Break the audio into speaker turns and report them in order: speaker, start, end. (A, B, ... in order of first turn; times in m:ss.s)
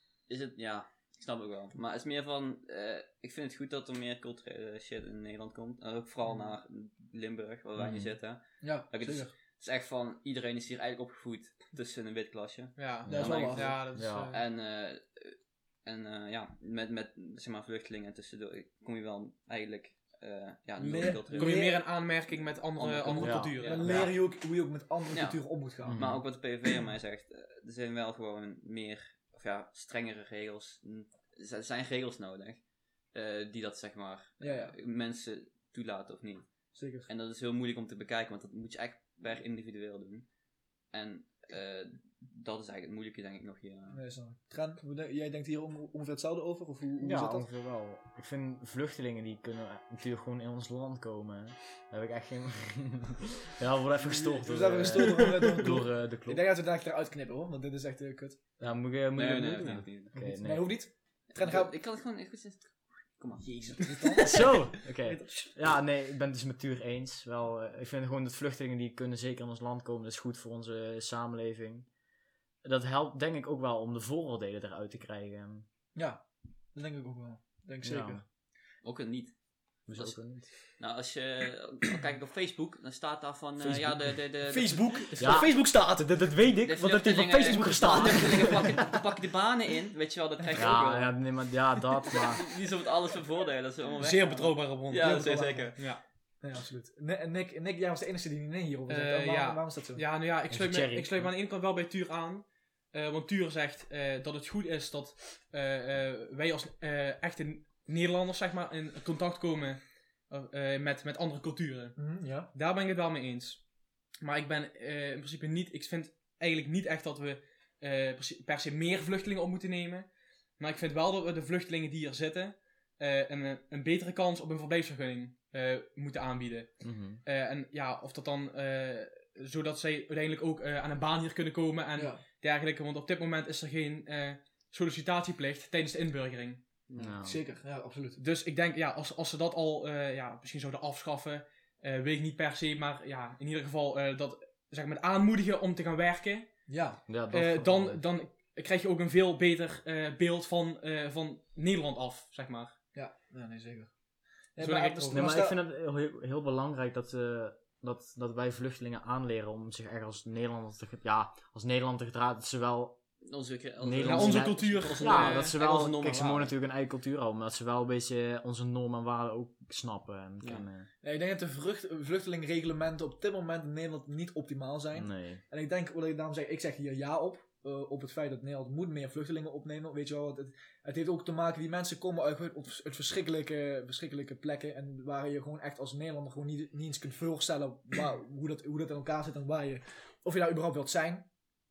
0:00.3-0:21.6 A
0:07.8-0:08.1 B
0:08.6-0:09.3 C
0:12.8-0:14.4 D
0:13.1-0:13.8 C
0:13.1-0:13.4 B
0:13.9-0:14.3 B
0:20.8-0:21.8 C
0:21.3-0:23.9 D
0:22.8-0:24.0 A
0:23.2-0:24.1 B
0:23.6-0:26.1 C
0:25.1-0:40.3 A
0:25.8-0:26.2 B
0:34.4-0:34.8 C
0:36.8-0:37.1 C
0:40.9-0:44.0 A
0:43.9-0:47.5 C
0:47.0-0:56.4 B
0:54.1-0:58.4 C
0:55.1-0:55.5 D
0:58.6-1:00.8 B
0:59.1-1:00.1 A
1:00.1-1:01.7 C
1:01.3-1:03.8 A
1:03.4-1:04.5 C
1:04.2-1:11.9 B
1:12.6-1:15.7 B
1:16.0-1:18.2 C
1:17.8-1:18.2 B
1:18.8-1:25.4 A
1:19.9-1:20.5 B
1:24.4-1:26.2 C
1:25.2-1:28.7 B
1:26.6-1:31.2 A
1:27.4-1:28.7 C
1:30.6-1:32.5 B
1:32.1-1:35.8 A
1:34.0-1:35.0 D
1:34.0-1:35.8 C
1:35.8-1:36.0 D
1:36.4-1:40.0 C
1:38.9-1:53.6 D
1:40.5-1:41.3 B
1:52.0-1:52.5 C
1:54.2-2:16.6 D
2:06.8-2:07.2 B
2:12.0-2:12.2 C
2:16.9-2:17.1 A
2:17.0-2:17.4 B
2:17.0-2:18.2 C
2:18.2-2:26.5 D
2:26.7-2:27.0 C
2:27.1-2:28.0 B
2:27.3-2:32.8 D
2:32.9-2:33.9 C
2:34.6-2:35.6 C
2:34.6-2:35.4 D
2:35.1-2:43.0 B
2:43.2-2:46.6 A
2:43.8-2:50.9 B
2:44.0-2:45.6 D
2:51.0-3:11.3 C
2:54.9-2:55.4 B